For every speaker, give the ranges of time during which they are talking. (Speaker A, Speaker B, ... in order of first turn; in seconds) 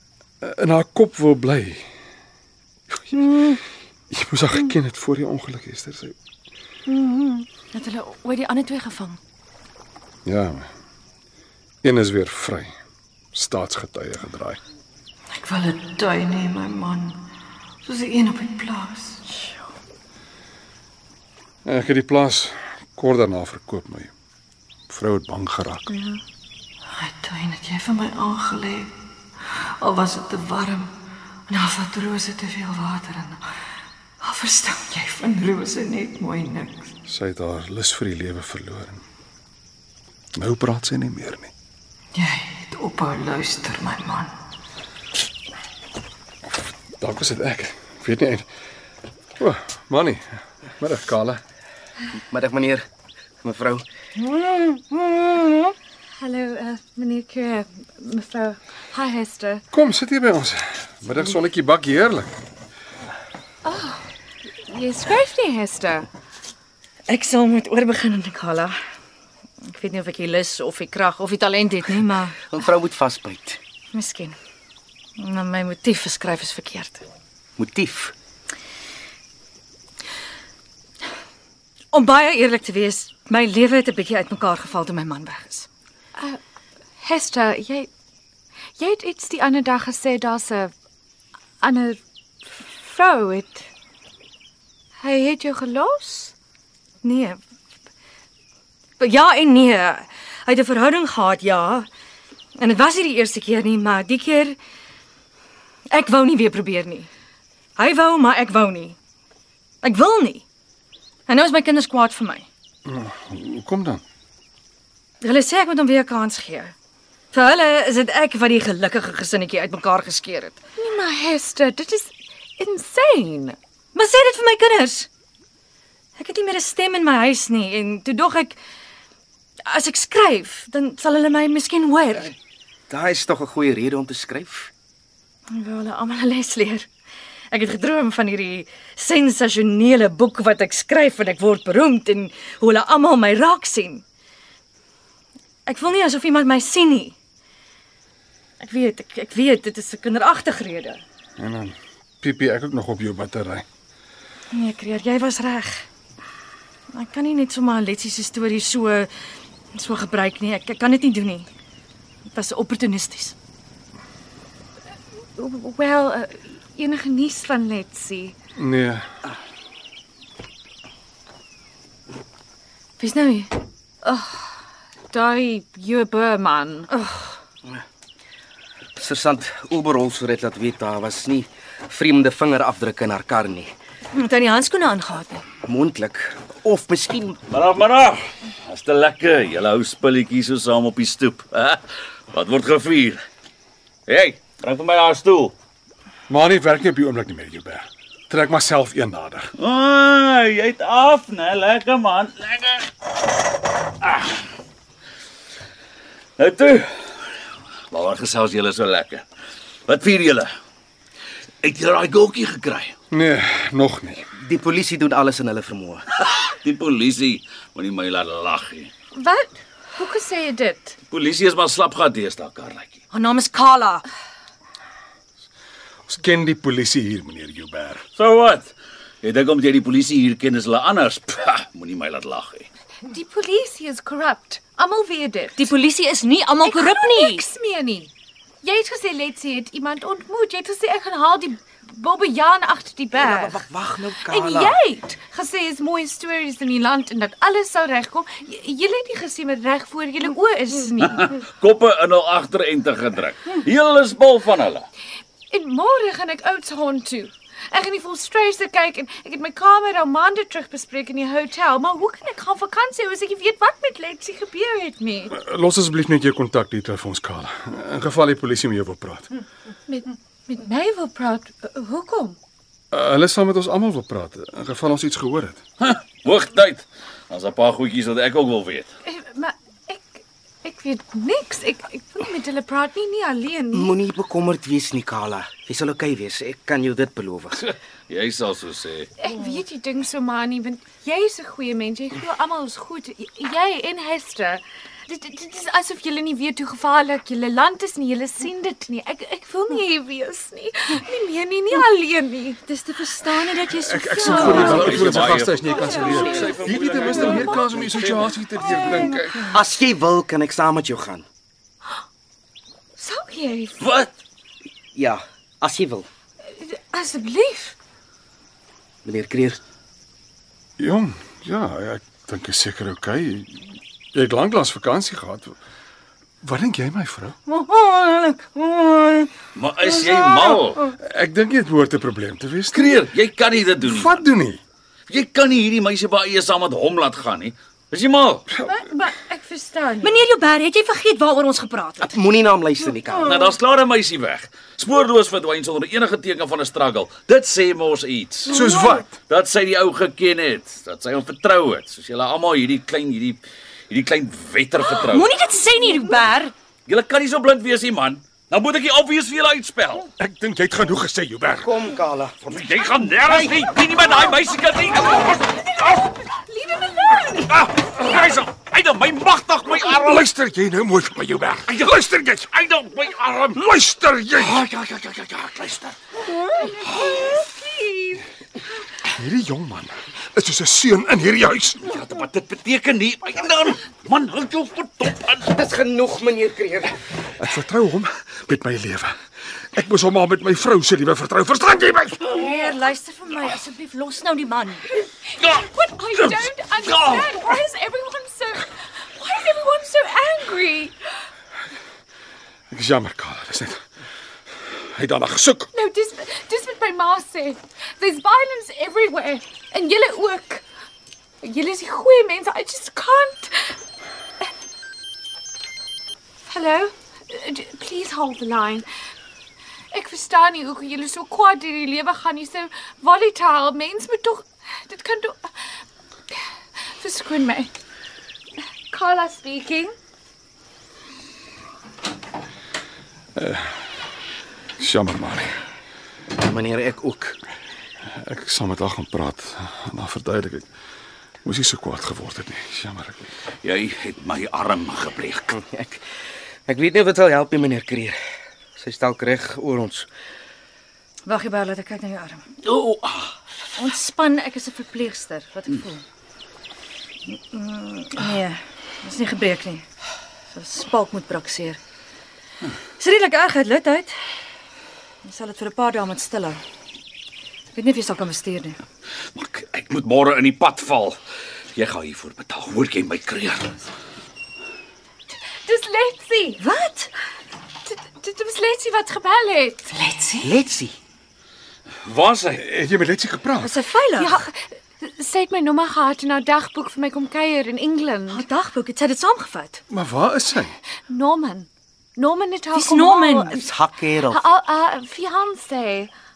Speaker A: 0.4-1.9, 2.9-6.2, 10.2-10.7, 11.8-12.8, 13.3-14.6, 21.6-24.1, 24.9-25.9, 37.0-39.0, 40.4-41.5, 47.0-48.5, 49.4-51.4, 59.7-62.3, 112.8-114.0, 151.4-153.7, 168.6-169.1, 196.3-199.5, 213.1-214.3, 226.1-228.0, 265.3-269.3, 272.9-275.6, 303.7-309.5, 320.8-325.6, 326.4-327.4, 331.0-333.1, 333.8-334.6, 338.5-338.9, 348.5-349.2, 360.2-361.7, 370.0-372.4, 373.5-374.6, 379.1-381.9, 387.4-392.4, 402.7-403.8, 404.7-405.7, 433.4-434.0, 434.8-435.6, 438.1-440.7, 441.4-443.3, 482.6-483.8, 489.9-490.8
Speaker B: 3.1-3.6, 6.9-7.5, 15.5-16.6, 30.0-30.6, 42.8-43.9, 54.2-55.7, 308.6-309.3, 327.5-329.3, 329.8-330.9, 348.7-349.0, 376.5-376.9
Speaker C: 7.7-9.2, 67.1-68.8, 69.7-72.4, 73.9-74.4, 75.2-77.0, 81.9-85.7, 97.0-97.4, 99.0-101.9, 102.6-104.6, 105.9-107.1, 107.8-109.0, 109.8-110.4, 111.3-112.5, 115.2-116.7, 117.3-120.6, 124.0-125.1, 126.2-128.6, 129.7-132.3, 135.5-136.9, 137.5-144.0, 145.7-147.2, 148.6-151.0, 154.5-155.9, 156.9-159.1, 159.7-161.5, 162.3-163.4, 173.0-173.5, 176.9-177.4, 184.1-185.4, 223.1-224.1, 235.6-237.4, 302.7-304.9, 340.0-342.1, 354.9-356.5, 392.2-394.9, 451.3-452.5, 453.8-456.1, 457.3-459.9, 460.5-461.8, 463.0-464.2, 465.2-466.6, 467.7-468.8, 476.6-477.1, 479.9-480.5, 483.6-484.4, 488.3-489.8, 492.8-493.6
Speaker D: 52.2-52.9, 53.4-53.9, 72.5-73.6, 77.6-78.1, 132.9-134.7, 179.0-183.7, 185.6-187.4, 214.4-216.1, 243.1-244.8, 283.7-287.6, 309.4-311.3, 314.9-316.1, 319.1-319.6, 342.0-343.4, 361.6-362.7, 363.3-363.6, 385.4-387.0, 436.4-437.4, 445.5-446.1, 446.7-448.2, 448.8-450.1, 480.4-481.0, 493.5-494.5
Speaker E: 56.2-59.6, 63.6-64.0, 64.7-66.1, 87.0-87.9, 88.8-90.7, 91.6-92.0, 92.6-93.7, 95.0-96.3, 120.8-123.6, 165.4-168.4, 174.0-174.5, 175.1-176.9, 219.1-221.0, 233.1-235.7, 236.6-238.1, 238.6-243.6, 244.3-251.3, 255.5-265.3, 269.9-272.4, 279.1-283.9, 289.2-302.6, 304.2-304.9, 305.6-306.7, 307.3-307.7, 313.0-313.8, 316.5-317.8, 338.6-340.1, 365.2-367.5, 376.9-378.2, 395.3-400.9, 405.7-410.6, 411.4-413.8, 416.5-418.9, 419.9-425.5, 427.0-427.7, 428.9-429.9, 475.6-476.6, 477.9-479.9, 484.1-488.5, 491.1-493.6, 494.2-496.1
Speaker F: 187.5-193.2, 194.1-195.5, 199.6-202.9, 203.9-204.4, 206.4-207.3, 207.9-209.2, 209.9-210.5, 211.6-212.9, 216.4-218.9, 221.1-223.0, 228.2-232.7, 251.0-254.9, 275.8-278.9, 287.6-289.1, 304.3-308.3, 313.8-314.1, 329.6-330.8, 332.7-334.2, 335.1-338.5, 343.2-348.6, 349.3-355.3, 356.9-360.1, 362.5-366.1, 367.4-370.3, 371.7-373.6, 374.4-376.0, 381.8-385.5, 443.6-445.6, 452.6-453.3, 469.4-471.2, 471.7-473.9, 482.0-482.6